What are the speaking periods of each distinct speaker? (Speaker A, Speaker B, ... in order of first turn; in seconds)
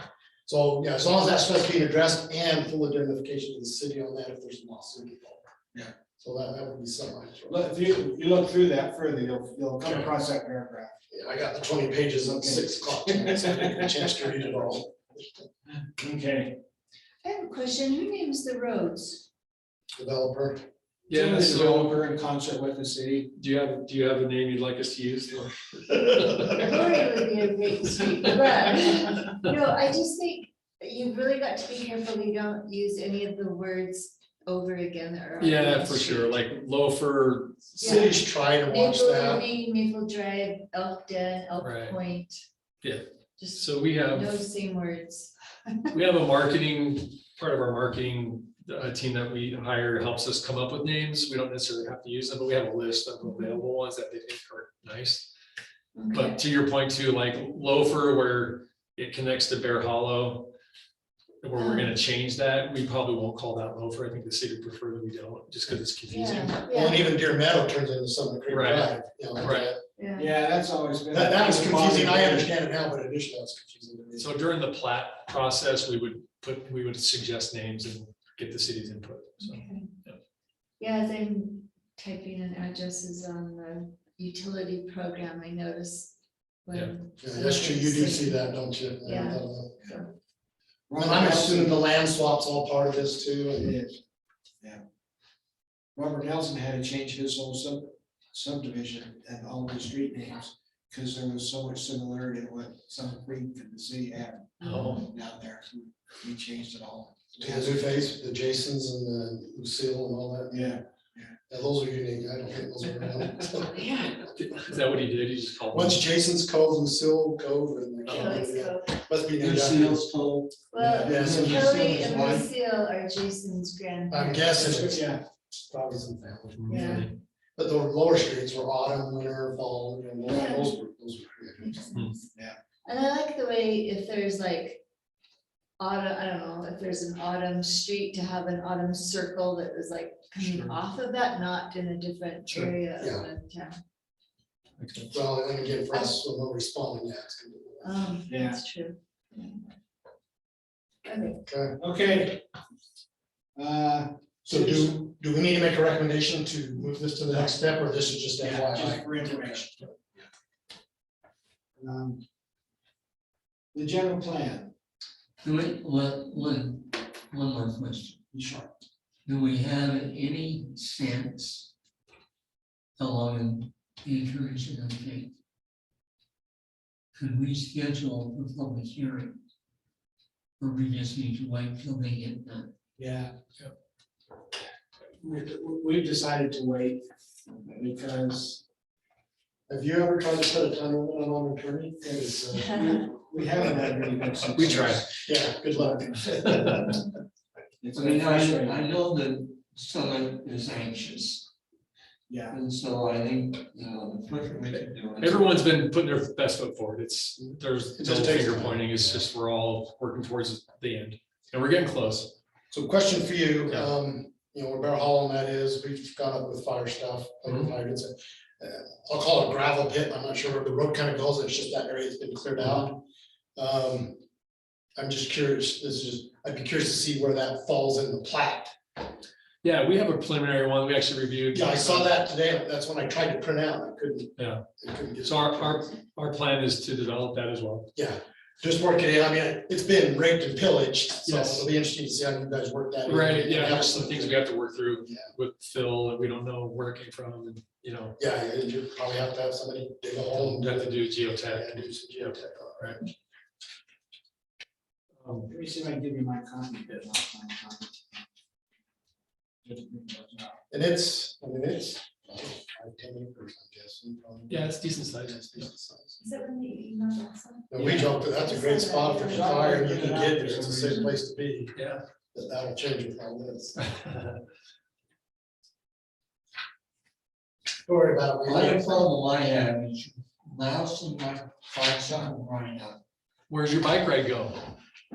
Speaker A: 0.5-5.4, 6.2-7.6, 11.1-14.9, 20.0-20.6, 37.8-39.4, 66.7-69.8, 71.1-74.3, 87.2-89.9, 91.0-93.9, 107.4-110.8, 111.5-113.7, 115.7-120.0, 120.8-122.4, 124.1-131.8, 143.0-143.2, 145.1-147.9, 151.4-151.8, 154.5-159.9, 189.7-193.0, 195.2-197.0, 207.4-209.2, 212.7-223.0, 223.6-224.2, 225.0-228.7, 231.5-235.9, 237.9-244.4, 248.2-253.0, 260.7-266.2, 267.7-271.8, 272.3-273.8, 277.9-279.1
Speaker B: 7.5-10.9, 12.4-13.8, 15.7-16.6, 21.1-23.3, 70.2-72.5, 90.9-91.8, 95.9-107.9, 110.5-111.3, 120.8-121.2, 124.5-125.2, 148.3-148.6, 151.8-152.4, 153.6-155.0, 157.3-157.5, 158.4-160.2, 161.8-162.2, 163.7-164.7, 168.3-168.7, 183.0-183.3, 185.2-188.6, 192.7-195.2, 197.8-198.8, 202.3-202.6, 255.4-258.2, 259.6-260.6, 267.8-268.1, 269.3-271.0
Speaker C: 17.2-19.3, 26.6-36.4, 37.8-42.4, 43.4-45.9, 53.2-53.6, 56.0-56.4, 61.5-62.0, 66.1-67.1, 70.0-70.3, 79.4-79.9, 80.8-90.1, 104.6-105.1, 113.7-114.2, 118.1-118.9, 120.7-124.6, 126.7-127.1, 130.3-130.7, 131.6-132.3, 132.8-134.8, 135.8-143.8, 147.8-149.6, 151.1-151.4, 266.2-269.6
Speaker D: 21.1-22.0, 23.3-27.2, 35.4-38.2, 41.6-42.0, 42.8-44.4, 45.9-55.3, 56.1-60.5, 61.4-66.6, 68.5-69.7, 74.2-80.2, 104.6-105.0, 114.3-116.0, 118.0-118.4, 126.6-127.1, 140.4-140.8, 142.5-142.7, 144.8-145.1, 194.6-195.0, 196.3-197.0, 205.2-212.3, 229.6-232.2, 234.4-234.7, 235.2-237.9, 241.2-241.7, 243.1-248.2, 250.3-253.0, 255.2-255.5, 264.5-265.6, 271.8-272.0, 273.9-274.4, 283.5-284.7
Speaker E: 119.4-122.4, 165.4-168.2, 169.2-171.7, 173.0-175.3, 177.2-179.4, 180.6-182.7, 197.9-201.5, 202.5-205.5, 278.4-283.0